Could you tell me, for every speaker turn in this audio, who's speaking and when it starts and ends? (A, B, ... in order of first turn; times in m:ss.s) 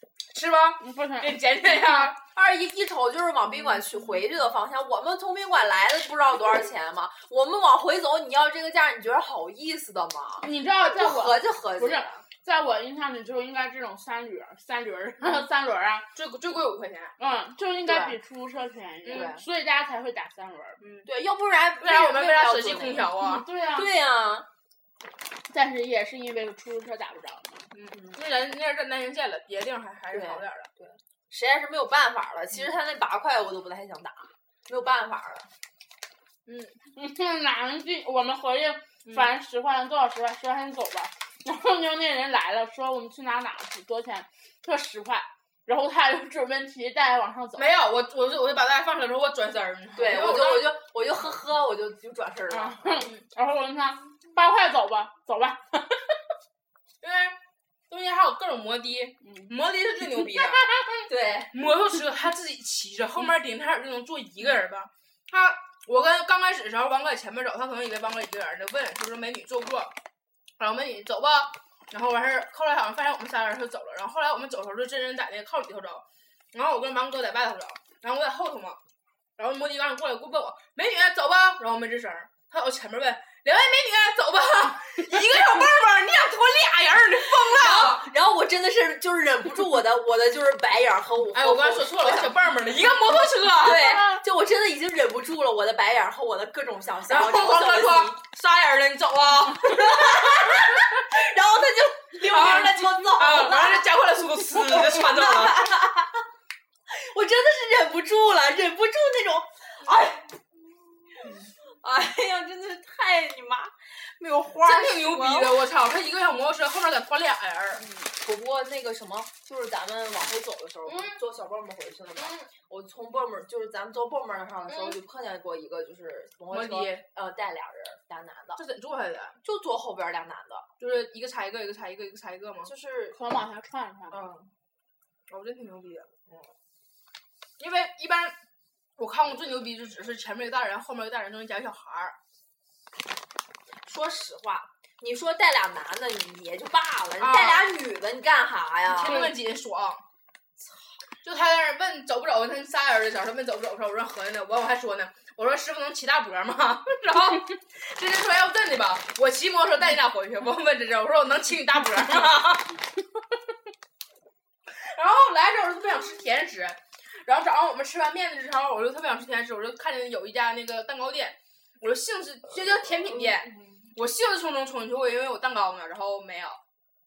0:00.3-0:02.2 A
0:00.8-0:01.4 B
0:02.1-0:12.2 C
0:10.4-0:16.0 B
0:16.1-0:17.1 A
0:17.2-0:20.8 B
0:17.8-0:18.2 C
0:19.0-0:19.3 A
0:19.1-0:19.4 C
0:20.8-0:21.1 A
0:21.0-0:24.5 C
0:21.8-0:23.4 A
0:23.2-0:23.9 B
0:25.5-0:27.6 B
0:27.7-0:30.7 A
0:30.1-0:35.5 C
0:36.4-0:36.8 A
0:36.9-0:47.6 B
0:47.6-0:50.8 A
0:49.9-0:53.1 C
0:52.5-0:56.2 B
0:57.0-0:57.4 A
0:57.9-1:00.7 A
1:01.1-1:01.5 C
1:01.5-1:09.9 A
1:10.6-1:18.8 A
1:19.4-1:28.0 A
1:27.3-1:32.4 C
1:31.3-1:34.0 A
1:33.6-1:38.2 C
1:33.9-1:34.2 B
1:37.1-1:40.8 A
1:39.6-1:46.2 C
1:42.2-1:45.7 A
1:46.9-1:50.3 C
1:51.0-1:55.6 C
1:54.6-1:57.8 A
1:58.0-2:08.6 C
2:00.8-2:01.2 A
2:02.2-2:02.5 A
2:04.7-2:05.0 A
2:06.5-2:07.0 A
2:08.6-2:09.4 A
2:09.4-2:10.7 C
2:10.8-2:12.7 A
2:12.6-2:13.2 C
2:13.1-2:14.2 B
2:14.1-2:14.5 C
2:15.3-2:16.1 A
2:17.6-2:18.3 A
2:19.0-2:22.2 A
2:23.8-2:29.3 C
2:27.2-2:27.7 A
2:28.9-2:30.0 A
2:31.2-2:42.8 A
2:44.7-2:56.6 A